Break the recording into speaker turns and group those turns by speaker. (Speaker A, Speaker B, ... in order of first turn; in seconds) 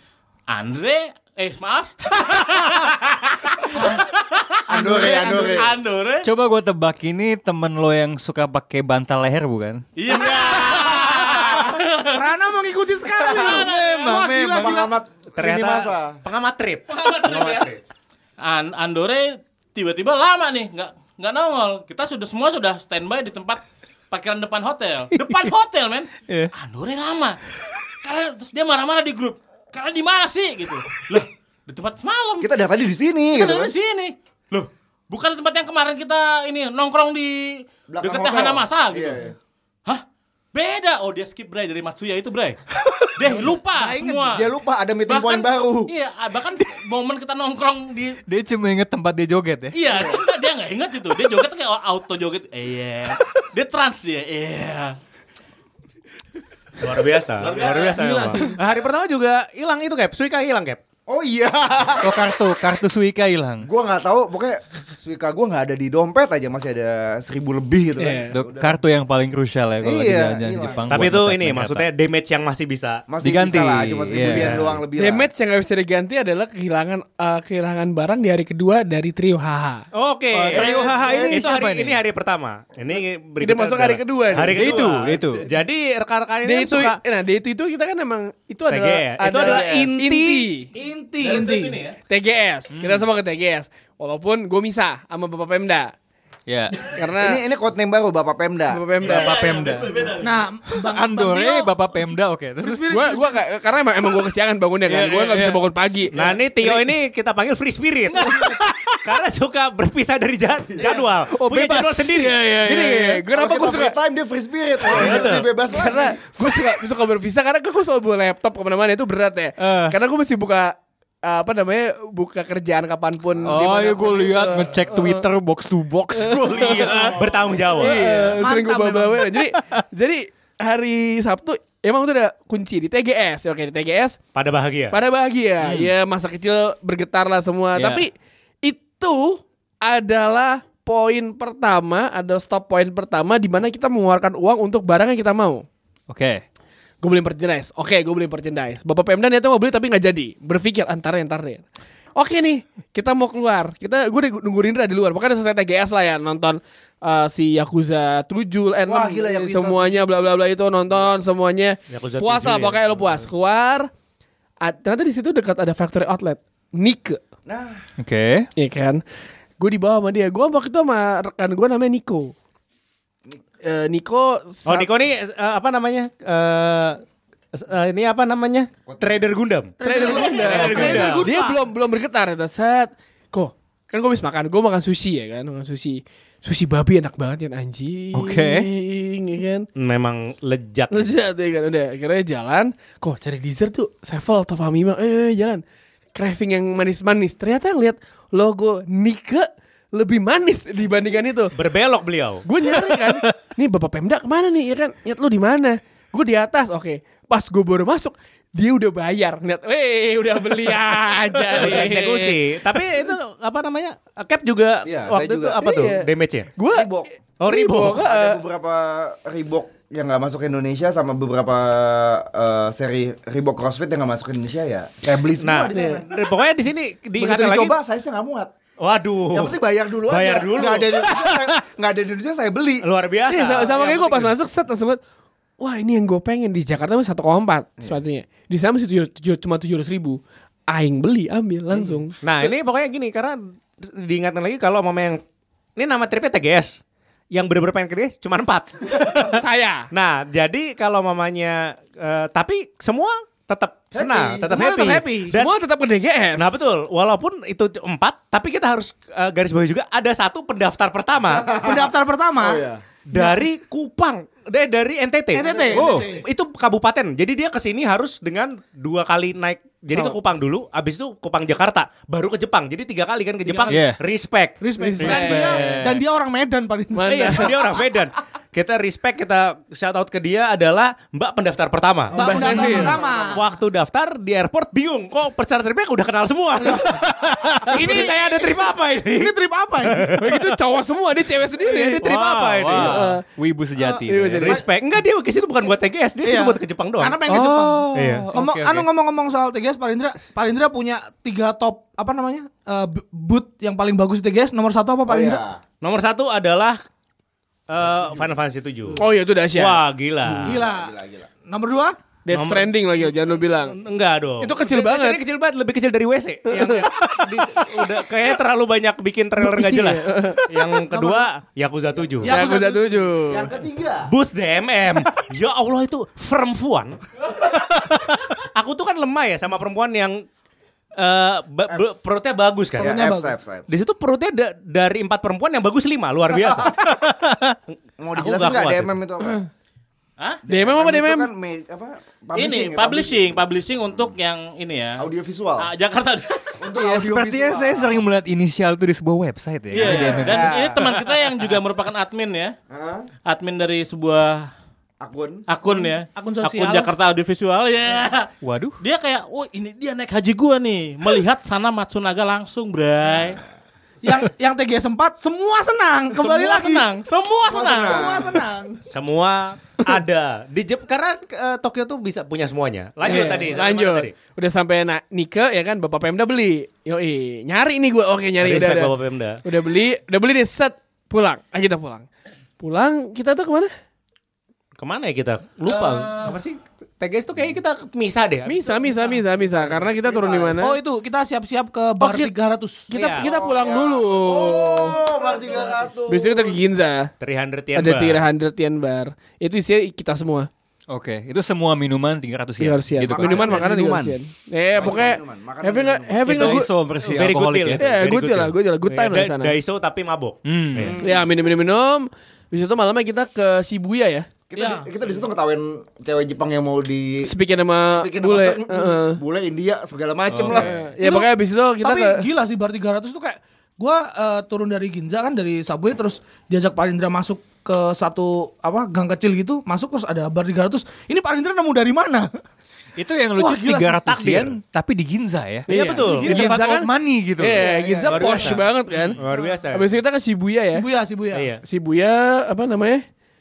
Speaker A: 0.5-6.3, 10.0-12.3, 13.2-14.1, 16.9-17.7, 18.4-27.4, 28.0-32.5, 33.3-39.3, 40.5-42.6, 43.1-44.5, 45.1-48.2, 49.7-55.0, 57.4-58.4, 91.2-92.0, 99.0-100.3, 342.3-345.1, 345.6-346.5, 349.7-352.5, 353.2-354.5, 355.5-358.3, 358.8-363.4, 366.1-368.0, 385.7-386.3
Speaker B: 4.7-5.7, 10.1-11.1, 14.5-16.2, 32.4-33.7, 37.9-39.3, 44.2-45.9, 61.1-62.3, 63.6-68.8, 69.8-71.1, 73.1-75.3, 80.5-81.5, 97.2-98.8, 113.3-116.5, 158.9-160.1, 167.4-167.8, 178.8-179.3, 214.8-216.1, 216.7-217.1, 217.8-226.2, 227.2-228.5, 229.3-232.8, 241.7-242.0, 253.9-254.4, 261.5-262.8, 305.1-305.6, 310.3-311.3, 321.9-322.2, 323.3-324.1, 332.8-333.7, 338.0-339.4, 340.5-343.4, 345.0-345.7, 346.6-348.1, 349.8-350.9, 352.7-353.1, 355.0-355.4, 367.4-368.5, 389.6-390.6, 393.2-396.6, 403.1-404.2, 404.7-406.3, 410.8-411.3, 414.5-417.3, 417.9-420.8, 437.6-438.6
Speaker C: 4.8-5.6, 10.3-15.0, 43.8-44.2, 57.9-58.6, 90.7-91.8, 100.2-101.7, 102.6-103.1, 126.7-127.0, 127.9-129.3, 179.8-181.6, 254.4-255.3, 261.5-262.6, 265.3-266.2, 273.5-273.7, 274.6-277.6, 282.1-283.5, 286.6-287.0, 287.6-290.1, 296.2-305.4, 310.4-310.9, 311.4-311.9, 322.2-323.1, 332.8-333.3, 355.6-356.9, 364.0-366.9, 367.8-368.8, 373.1-373.4, 388.9-389.2, 390.6-392.9, 395.4-395.7, 414.6-414.9, 421.0-432.3, 433.4-434.2, 439.1-439.7, 440.7-441.5
Speaker D: 6.2-9.8, 13.3-14.8, 25.1-25.4, 48.3-49.8, 62.0-63.7, 68.3-71.9, 73.2-74.6, 80.3-82.0, 84.5-85.5, 92.7-93.0, 96.5-97.0, 99.0-100.1, 100.7-103.2, 104.9-105.6, 108.2-109.0, 111.3-113.2, 119.6-120.0, 123.5-127.2, 127.8-128.4, 135.6-135.9, 137.7-138.0, 146.1-146.4, 168.0-168.5, 188.1-188.7, 202.7-203.3, 265.7-266.1, 273.7-274.0, 275.0-276.0, 292.0-294.6, 297.3-298.9, 336.7-337.6, 346.7-351.4, 358.4-358.8, 400.9-403.6, 406.3-407.9, 410.4-410.9, 420.3-420.7, 433.0-437.7
Speaker E: 15.4-17.8, 56.8-60.8, 70.9-73.0, 74.2-74.8, 79.9-80.8, 81.3-87.0, 88.7-90.5, 106.1-112.4, 114.9-115.5, 127.1-128.0, 134.3-135.0, 161.9-163.3, 174.7-177.0, 177.5-181.2, 189.8-191.2, 201.5-202.4, 211.5-216.5, 217.4-218.0, 225.4-227.7, 228.8-229.6, 230.1-231.1, 232.8-234.3, 242.2-245.2, 245.8-246.8, 247.3-249.4, 249.9-255.5, 256.4-261.6, 263.1-274.6, 277.1-282.8, 283.3-289.3, 289.9-290.5, 291.7-293.0, 294.4-297.2, 297.9-298.3, 305.8-306.8, 307.7-309.0, 309.5-310.6, 312.3-312.7, 313.6-322.4, 324.1-330.2, 330.9-333.0, 333.7-336.9, 337.7-338.9, 368.9-374.1, 378.4-379.4, 384.8-388.7, 392.9-393.3, 397.2-398.2, 406.3-410.9, 434.0-434.5, 435.7-436.4, 438.1-439.9, 441.3-441.6
Speaker F: 68.0-68.3, 75.0-79.8, 83.4-84.8, 86.4-90.7, 92.1-95.9, 96.8-97.4, 98.7-99.4, 102.9-106.1, 112.5-114.0, 115.7-125.2, 126.1-127.1, 127.8-134.2, 134.9-138.1, 138.6-145.7, 147.0-151.6, 152.2-163.9, 164.6-167.2, 168.6-169.0, 169.6-172.3, 173.6-174.9, 179.8-189.7, 190.9-195.6, 196.1-201.5, 202.4-212.8, 215.6-216.0, 216.6-218.4, 233.3-235.0, 235.6-242.2, 249.2-249.9, 255.3-256.5, 274.8-275.8, 276.9-277.6, 282.1-283.0, 290.1-292.1, 292.7-293.2, 293.8-294.6, 308.9-309.8, 312.2-313.8, 314.4-315.2, 316.5-316.9, 319.4-320.5, 322.2-323.5, 340.5-341.3, 373.0-382.1, 382.6-383.7, 388.4-390.8, 392.0-392.3, 392.9-395.0, 396.1-397.1, 397.7-400.5, 402.6-406.7, 407.8-409.6, 411.0-414.3, 417.2-419.2, 420.5-422.2, 435.7-439.2, 439.7-440.8, 441.6-443.0